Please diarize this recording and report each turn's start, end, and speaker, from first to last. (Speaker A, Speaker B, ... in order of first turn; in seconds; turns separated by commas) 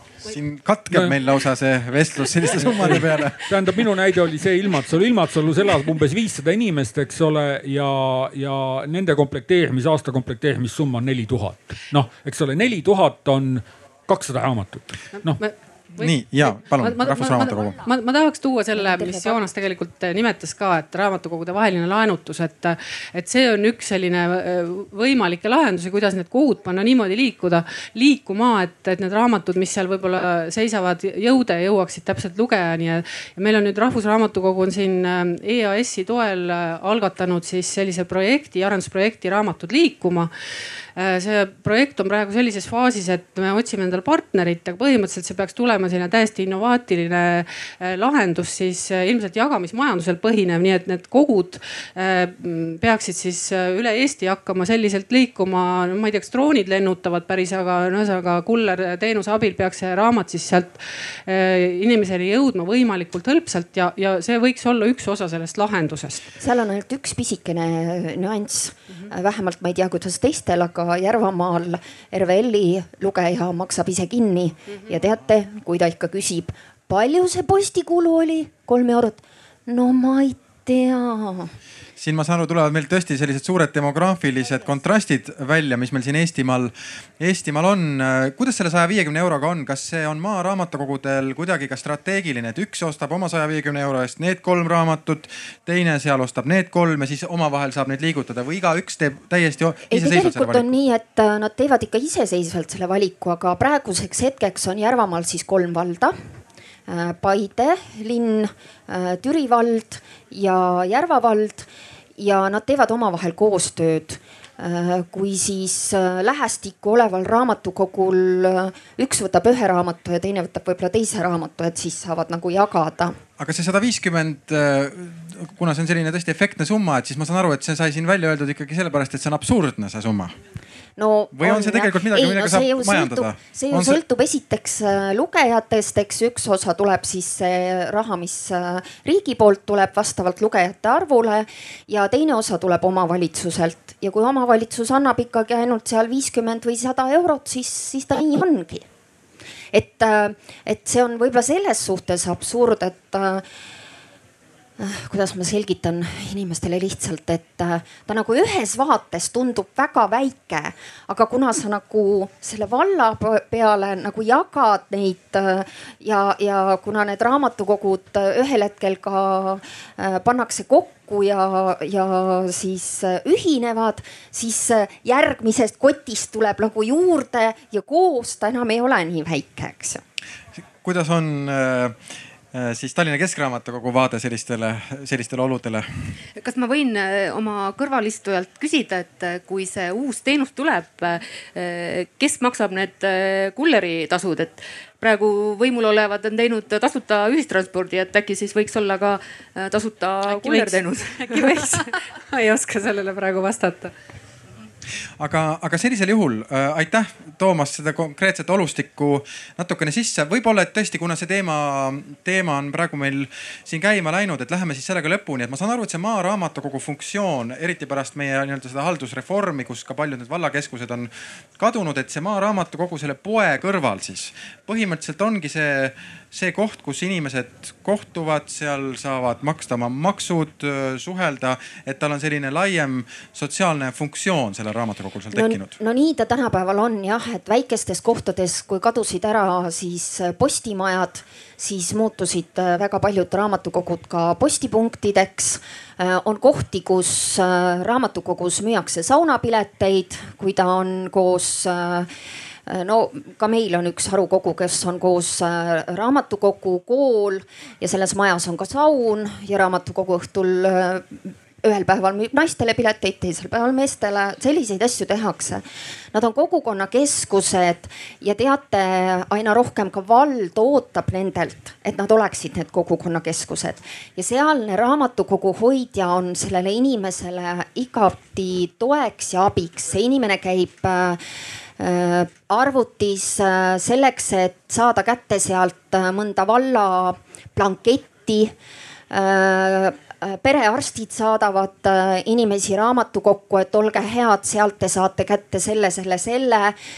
Speaker A: 0.2-3.4, Speaker B: 2.7-15.4, Speaker C: 15.2-40.3, Speaker A: 16.0-17.8, Speaker D: 18.8-19.4, Speaker C: 41.0-66.2, Speaker D: 66.4-81.5, Speaker A: 82.0-100.8, Speaker D: 99.9-106.2, Speaker D: 106.9-123.2, Speaker A: 123.4-130.3, Speaker D: 131.0-148.8, Speaker A: 131.3-134.0, Speaker D: 149.7-153.4, Speaker D: 154.8-180.0, Speaker A: 180.8-181.9, Speaker A: 182.5-186.1, Speaker E: 186.4-201.9, Speaker C: 200.3-203.9, Speaker A: 205.2-235.8, Speaker D: 235.3-252.1, Speaker D: 252.7-265.6, Speaker D: 266.1-281.2, Speaker D: 281.8-288.5, Speaker D: 289.1-296.8